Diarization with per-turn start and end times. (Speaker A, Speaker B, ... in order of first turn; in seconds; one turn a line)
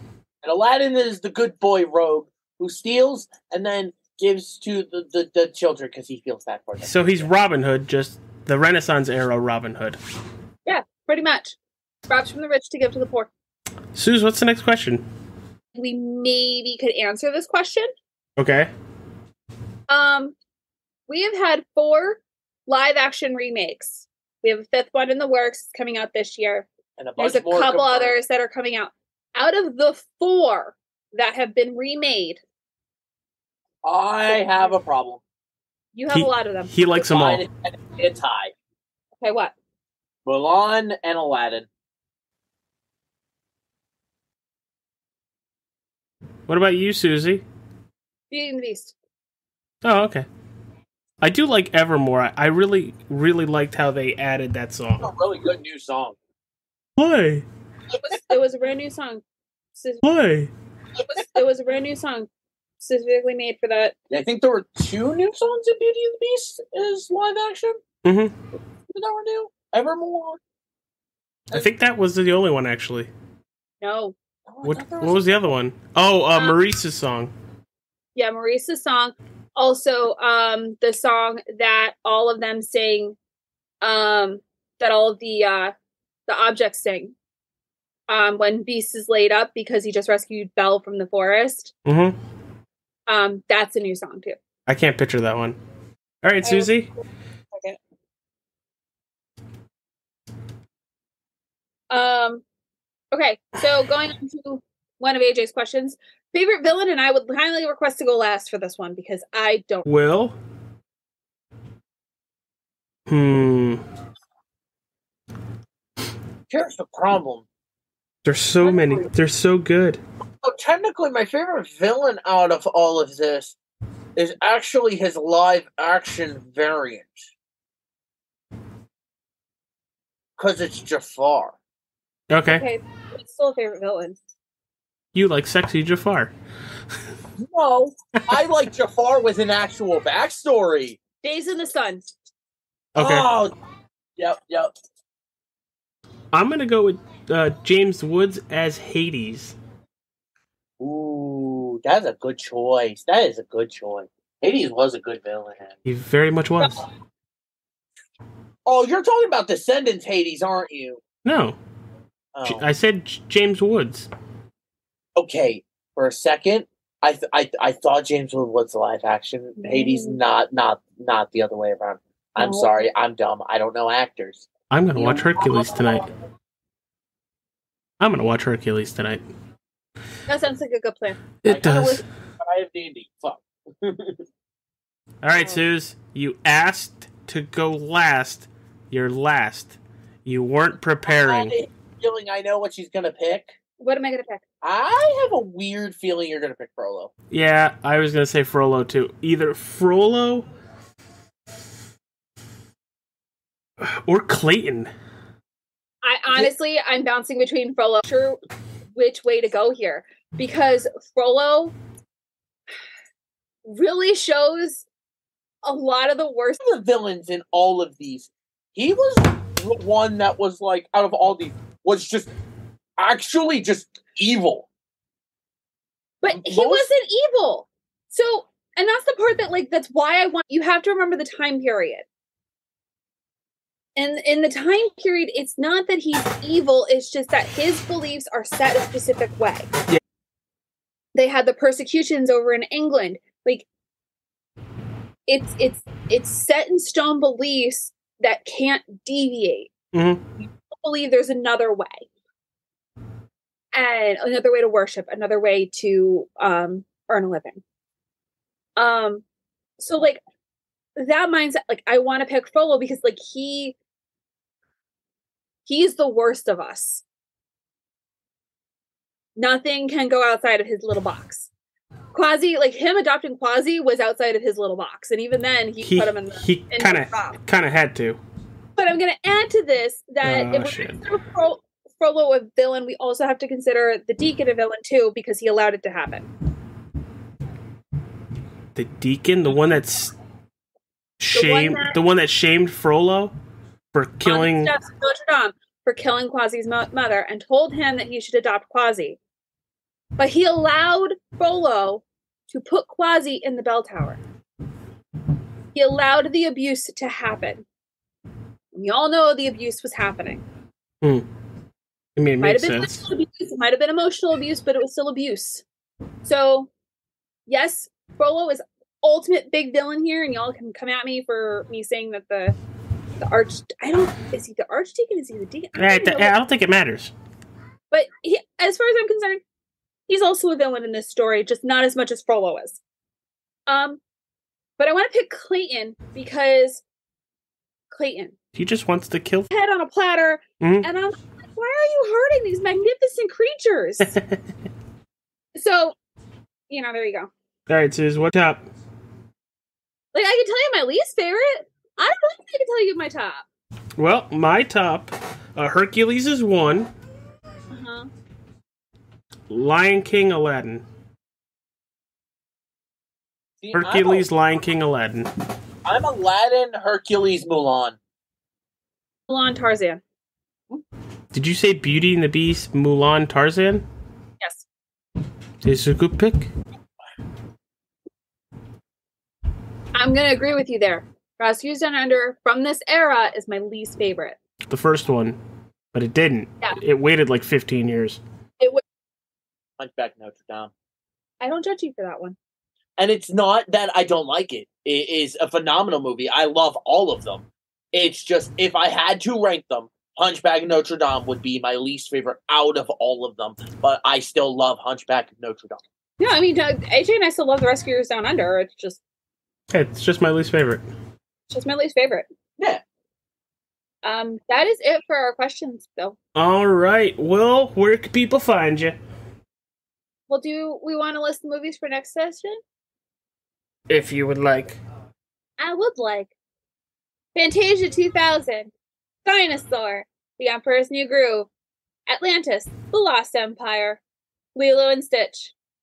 Speaker A: 0.4-7.3
Speaker B: 6.8-10.0
Speaker C: 10.7-11.6
Speaker C: 12.1-13.3
Speaker B: 13.9-15.0
Speaker C: 15.7-17.9
Speaker B: 18.4-18.7
Speaker C: 19.9-20.4
Speaker C: 21.1-32.4
Speaker A: 27.0-28.2
Speaker A: 33.8-35.2
Speaker C: 35.9-37.0
Speaker B: 36.1-37.4
Speaker A: 37.0-38.5
Speaker C: 39.2-39.5
Speaker A: 40.2-41.7
Speaker B: 46.5-47.4
Speaker C: 48.3-49.0
Speaker B: 49.8-50.2
Speaker B: 51.2-55.1
Speaker A: 55.0-56.2
Speaker B: 57.0-57.5
Speaker C: 58.0-59.2
Speaker C: 59.8-60.0
Speaker B: 60.0-60.5
Speaker C: 61.1-62.3
Speaker C: 62.8-63.9
Speaker A: 64.1-67.8
Speaker B: 68.0-68.3
Speaker A: 68.9-70.4
Speaker B: 71.5-73.1
Speaker C: 73.8-74.2
Speaker A: 74.5-75.4
Speaker B: 74.6-77.3
Speaker C: 78.2-83.2
Speaker C: 83.8-85.7
Speaker C: 86.3-87.2
Speaker C: 88.1-91.7
Speaker B: 91.9-92.2
Speaker C: 93.1-94.4
Speaker B: 94.7-95.6
Speaker B: 96.2-96.9
Speaker C: 96.4-96.7
Speaker C: 97.5-97.8
Speaker C: 101.9-102.4
Speaker C: 103.1-109.9
Speaker B: 109.9-110.3
Speaker B: 113.1-113.8
Speaker A: 116.5-117.5
Speaker B: 118.2-120.0
Speaker A: 120.4-123.5
Speaker A: 124.2-127.2
Speaker A: 130.4-131.6
Speaker B: 132.3-132.7
Speaker C: 132.5-134.2
Speaker B: 135.1-136.3
Speaker A: 137.4-141.0
Speaker C: 141.2-142.1
Speaker B: 143.0-143.3
Speaker A: 143.0-143.5
Speaker A: 144.2-144.7
Speaker B: 146.3-149.6
Speaker A: 150.8-155.7
Speaker B: 155.9-156.8
Speaker A: 158.7-161.0
Speaker B: 161.2-161.6
Speaker A: 162.3-162.6
Speaker B: 162.4-164.1
Speaker A: 165.2-176.0
Speaker C: 169.6-170.2
Speaker C: 172.4-172.8
Speaker B: 174.7-176.1
Speaker B: 178.0-179.2
Speaker C: 180.3-181.2
Speaker B: 181.4-182.0
Speaker A: 181.5-184.2
Speaker B: 185.2-191.6
Speaker A: 191.1-193.5
Speaker C: 193.8-194.4
Speaker A: 194.6-197.1
Speaker B: 197.3-200.5
Speaker B: 203.8-204.9
Speaker C: 206.0-208.4
Speaker C: 208.9-211.8
Speaker C: 213.7-214.9
Speaker C: 215.6-216.6
Speaker A: 216.6-222.3
Speaker A: 223.0-224.7
Speaker C: 226.2-232.1
Speaker A: 226.3-226.9
Speaker C: 234.0-239.7
Speaker C: 241.2-243.7
Speaker C: 245.3-249.7
Speaker B: 249.9-250.2
Speaker C: 250.4-252.1
Speaker C: 253.7-257.6
Speaker C: 258.8-259.2
Speaker C: 259.8-260.2
Speaker C: 261.0-263.8
Speaker C: 265.7-267.0
Speaker C: 269.4-271.5
Speaker C: 272.1-277.4
Speaker B: 275.8-278.2
Speaker C: 278.8-286.3
Speaker B: 280.2-281.0
Speaker B: 288.8-290.1
Speaker B: 291.2-293.3
Speaker C: 291.3-292.0
Speaker B: 293.9-294.7
Speaker C: 294.2-299.2
Speaker C: 300.2-304.2
Speaker C: 305.8-307.6
Speaker C: 308.7-310.4
Speaker B: 312.2-313.0
Speaker C: 312.4-315.6
Speaker C: 316.2-316.7
Speaker C: 317.5-322.6
Speaker C: 323.2-326.4
Speaker B: 325.8-327.1
Speaker C: 327.9-329.4
Speaker C: 330.1-332.8
Speaker C: 333.7-334.0
Speaker C: 334.8-336.8
Speaker C: 337.9-338.4
Speaker B: 338.6-339.5
Speaker C: 339.5-344.2
Speaker B: 340.6-340.9
Speaker C: 345.6-346.0
Speaker C: 346.7-347.3
Speaker B: 347.7-348.6
Speaker C: 350.1-353.4
Speaker B: 354.0-356.9
Speaker C: 357.7-358.1
Speaker B: 359.5-360.8
Speaker A: 363.6-364.3
Speaker B: 363.8-365.3
Speaker A: 365.9-368.0
Speaker C: 369.3-370.0
Speaker B: 371.3-373.9
Speaker B: 375.6-376.5
Speaker C: 379.9-384.4
Speaker B: 384.7-385.4
Speaker B: 385.9-388.2
Speaker A: 389.8-390.7
Speaker C: 391.4-392.4
Speaker A: 393.0-405.8
Speaker C: 406.2-409.0
Speaker B: 409.7-410.9
Speaker C: 411.5-412.3
Speaker C: 414.0-416.2
Speaker B: 416.4-419.0
Speaker C: 420.3-422.6
Speaker B: 423.9-424.8
Speaker C: 425.6-426.3
Speaker C: 427.4-428.7
Speaker C: 429.2-431.5
Speaker C: 432.1-434.0
Speaker C: 434.6-435.6